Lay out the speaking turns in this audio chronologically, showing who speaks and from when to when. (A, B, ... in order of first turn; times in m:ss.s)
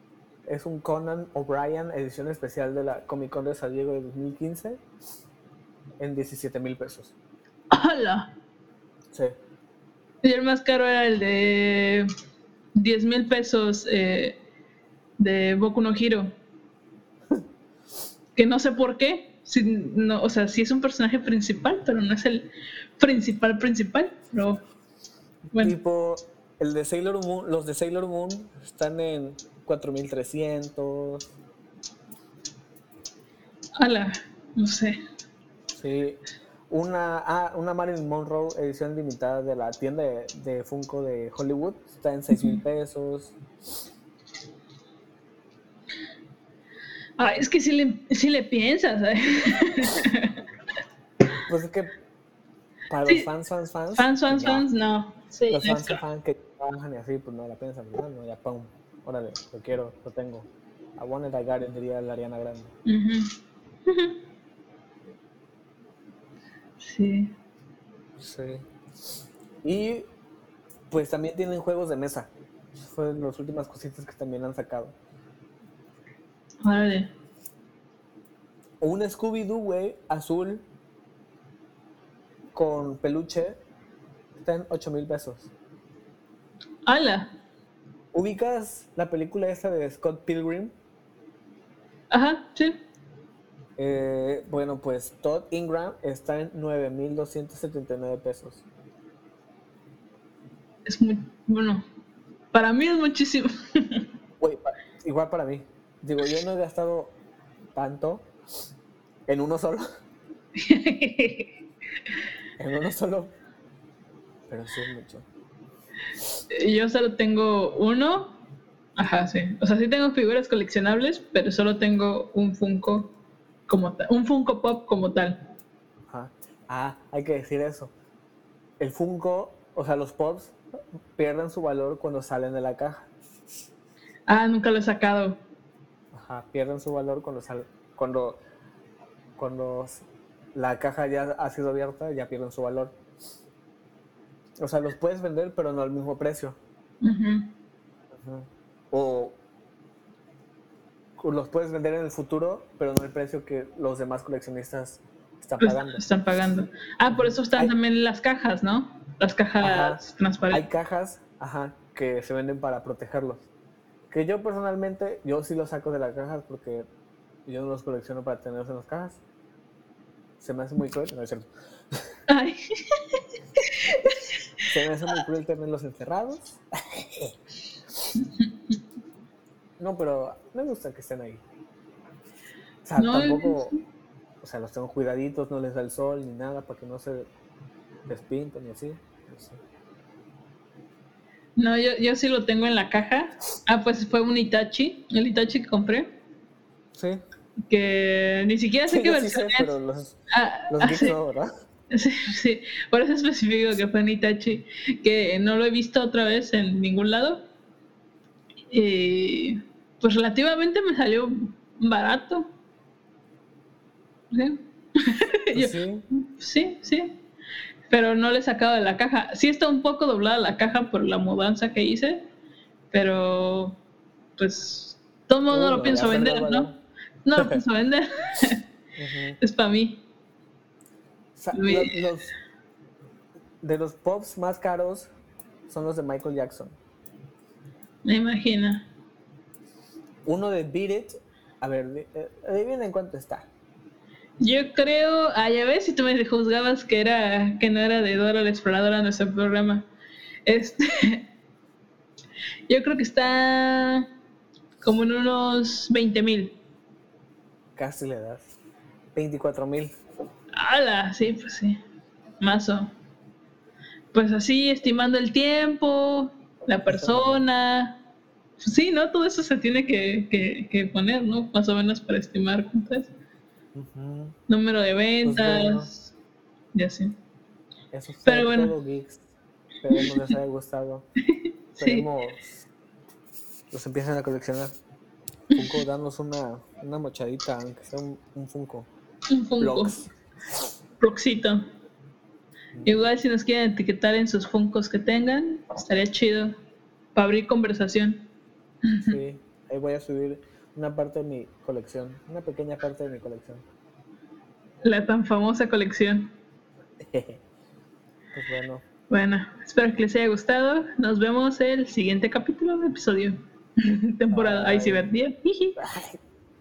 0:00.5-0:04.8 A
0:06.0-0:07.2 A
0:07.7-0:08.3 B
0:10.2-0:12.1 B
0:12.8-0:14.4 B
0:15.2-0:16.3 B
0:18.4-0:24.6 B
0:25.6-0:31.3 A
0:33.8-0:35.0 B
0:35.7-0:43.4 A
0:47.2-0:50.4 B
0:51.4-0:51.9 A
0:52.9-0:54.6 A
0:54.0-0:56.0 B
0:55.5-1:02.7 A
1:02.9-1:03.3 B
1:03.9-1:04.2 B
1:06.8-1:07.3 B
1:08.2-1:08.6 A
1:09.6-1:10.1 A
1:10.9-1:15.0 A
1:16.6-1:17.1 B
1:18.8-1:20.6 A
1:22.6-1:23.6 A
1:24.4-1:25.5 A
1:26.9-1:27.3 B
1:28.1-1:30.7 A
1:32.1-1:32.8 B
1:33.8-1:38.6 A
1:40.9-1:41.8 B
1:42.5-1:44.1 B
1:44.4-1:47.2 A
1:47.8-1:48.3 A
1:49.3-1:49.9 A
1:50.6-1:51.5 B
1:52.6-1:53.3 A
1:54.5-1:55.3 A
1:56.5-1:58.4 B
1:59.0-2:03.1 B
2:03.7-2:05.4 B
2:06.1-2:07.9 A
2:08.8-2:10.6 A
2:11.2-2:13.1 A
2:14.3-2:15.4 B
2:16.1-2:18.4 A
2:19.4-2:23.0 A
2:24.6-2:26.6 A
2:27.0-2:27.5 B
2:28.1-2:29.4 A
2:31.2-2:36.0 A
2:35.6-2:40.7 B
2:37.1-2:37.7 A
2:39.6-2:40.0 A
2:40.5-2:43.4 A
2:44.1-2:46.9 A
2:47.5-2:49.2 A
2:50.4-2:52.1 A
2:52.3-2:54.3 B
2:54.7-2:57.3 A
2:58.2-2:58.5 B
2:59.8-3:01.4 A
3:02.8-3:03.8 A
3:03.0-3:03.8 B
3:04.4-3:07.3 A
3:08.1-3:09.6 A
3:11.6-3:16.1 B
3:17.0-3:17.2 A
3:17.7-3:19.7 B
3:18.9-3:20.2 A
3:20.3-3:21.2 B
3:20.7-3:21.5 A
3:21.9-3:27.4 B
3:28.7-3:32.5 B
3:34.3-3:37.1 B
3:35.5-3:36.0 A
3:37.9-3:42.2 B
3:42.9-3:43.8 B
3:44.4-3:46.7 B
3:45.5-3:46.7 A
3:47.2-3:48.6 B
3:47.4-3:47.6 A
3:49.0-3:49.4 A
3:49.4-3:50.0 B
3:51.4-3:52.4 A
3:51.5-3:51.9 B
3:53.6-3:55.1 A
3:55.7-3:56.8 A
3:58.0-3:58.9 B
4:00.3-4:03.5 A
4:04.4-4:09.9 B
4:10.5-4:11.2 B
4:12.7-4:14.1 B
4:14.8-4:16.6 B
4:17.8-4:18.5 A
4:19.2-4:19.9 A
4:20.5-4:21.8 B
4:22.4-4:22.9 B
4:24.1-4:28.0 B
4:26.9-4:27.4 A
4:28.6-4:33.1 B
4:33.8-4:34.4 A
4:34.5-4:36.1 B
4:35.2-4:35.9 A
4:36.7-4:37.2 B
4:37.9-4:39.2 A
4:38.3-4:38.7 B
4:39.8-4:41.0 A
4:41.3-4:42.1 B
4:41.8-4:42.5 A
4:43.7-4:44.7 A
4:45.5-4:48.9 A
4:49.3-4:49.9 B
4:49.6-4:50.1 A
4:51.0-4:51.7 B
4:52.7-4:53.0 A
4:52.8-4:56.5 B
4:57.2-4:58.2 B
4:58.8-4:59.2 B
4:59.0-5:03.6 A
5:04.8-5:06.3 B
5:07.0-5:07.4 A
5:08.3-5:08.8 A
5:09.1-5:15.8 B
5:14.3-5:15.1 A
5:15.8-5:16.2 A